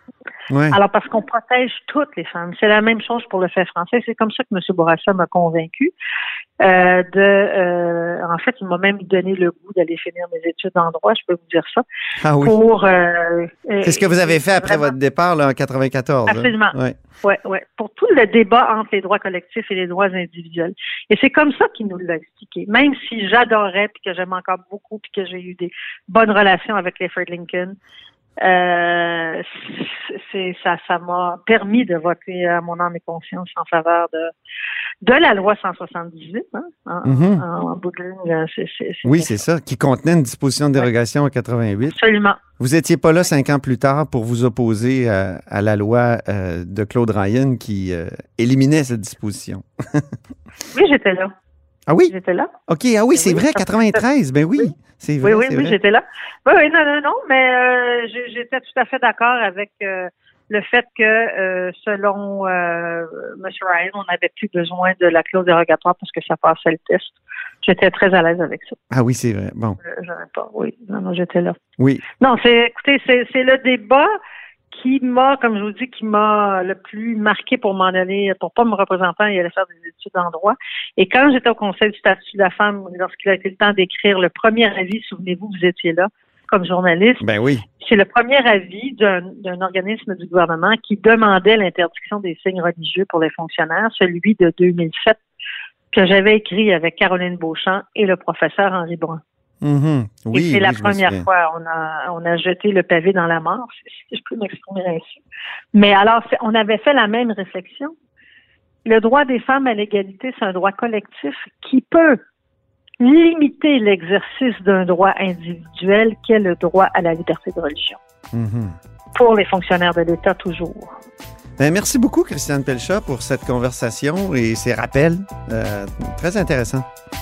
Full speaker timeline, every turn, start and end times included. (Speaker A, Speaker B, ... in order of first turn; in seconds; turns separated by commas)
Speaker A: 0.5-0.8, Speaker B: 0.7-5.9, Speaker B: 6.6-11.8, Speaker A: 12.2-12.6, Speaker B: 12.4-14.9, Speaker A: 13.8-16.9, Speaker B: 16.2-27.8, Speaker B: 28.4-34.3, Speaker B: 35.0-39.4, Speaker A: 37.0-37.4, Speaker A: 39.0-42.0, Speaker B: 41.9-42.4, Speaker A: 42.6-50.1, Speaker B: 50.7-51.3, Speaker A: 51.9-52.1, Speaker B: 52.1-52.5, Speaker A: 52.7-55.8, Speaker B: 53.1-54.0, Speaker B: 54.6-68.8, Speaker A: 68.9-69.8, Speaker B: 69.8-71.6, Speaker A: 71.8-72.0, Speaker B: 72.2-74.1, Speaker B: 74.7-87.2, Speaker A: 87.2-87.6, Speaker B: 87.8-95.2, Speaker B: 95.9-99.2, Speaker A: 99.6-101.3, Speaker B: 100.3-105.2, Speaker B: 105.7-107.9, Speaker B: 108.8-112.2, Speaker B: 113.0-118.0, Speaker A: 118.3-118.8, Speaker B: 119.1-120.9, Speaker A: 121.6-126.8